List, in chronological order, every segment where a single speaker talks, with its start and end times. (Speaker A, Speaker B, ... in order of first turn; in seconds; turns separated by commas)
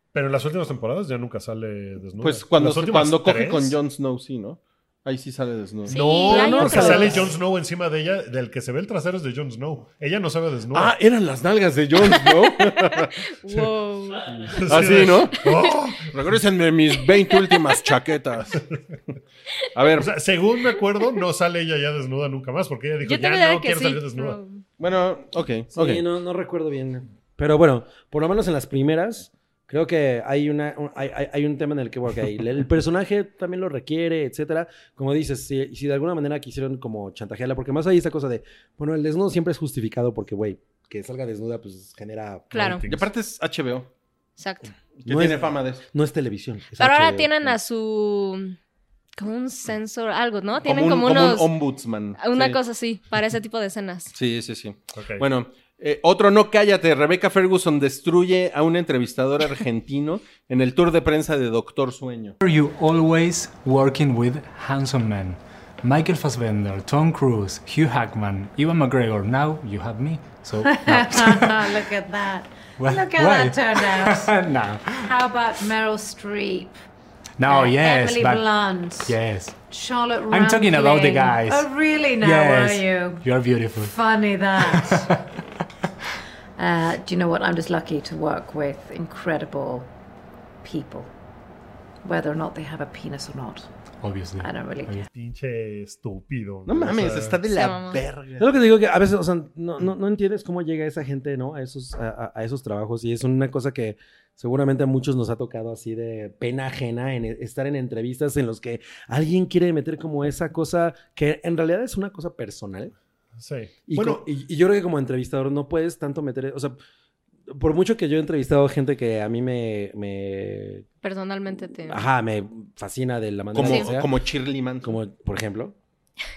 Speaker A: 0.1-3.8, Speaker B: 2.2-6.1, Speaker A: 5.9-10.9, Speaker C: 5.9-7.2, Speaker D: 6.3-7.3, Speaker B: 10.7-13.2, Speaker C: 13.4-14.3, Speaker A: 13.5-13.8, Speaker A: 14.3-16.4, Speaker B: 14.4-15.5, Speaker B: 16.1-18.6, Speaker C: 17.1-17.7, Speaker B: 19.8-20.1, Speaker A: 19.9-24.4, Speaker C: 23.0-24.6, Speaker B: 24.8-26.0, Speaker D: 25.7-42.5, Speaker C: 42.5-42.8, Speaker A: 42.5-43.1, Speaker B: 42.9-43.9, Speaker C: 44.4-44.7, Speaker B: 45.0-45.8, Speaker D: 45.1-47.6, Speaker C: 46.8-48.6, Speaker C: 49.2-51.5, Speaker B: 50.6-52.6, Speaker C: 52.2-54.1, Speaker B: 54.1-62.4, Speaker A: 54.9-55.2, Speaker E: 62.4-71.9, Speaker F: 70.6-74.3, Speaker E: 72.8-75.2, Speaker F: 75.0-76.8, Speaker E: 77.4-79.6, Speaker F: 77.5-85.1, Speaker E: 80.3-84.0, Speaker E: 84.6-85.2, Speaker F: 86.6-89.9, Speaker F: 90.6-91.1, Speaker F: 92.0-93.7, Speaker E: 94.0-95.1, Speaker F: 94.4-95.1, Speaker A: 95.1-97.4, Speaker B: 96.7-98.5, Speaker C: 97.5-98.0, Speaker D: 98.4-112.9, Speaker A: 113.4-114.2, Speaker D: 113.9-116.8, Speaker D: 117.5-120.9, Speaker C: 121.0-122.0, Speaker D: 121.9-124.1, Speaker B: 123.5-125.0, Speaker D: 124.8-125.8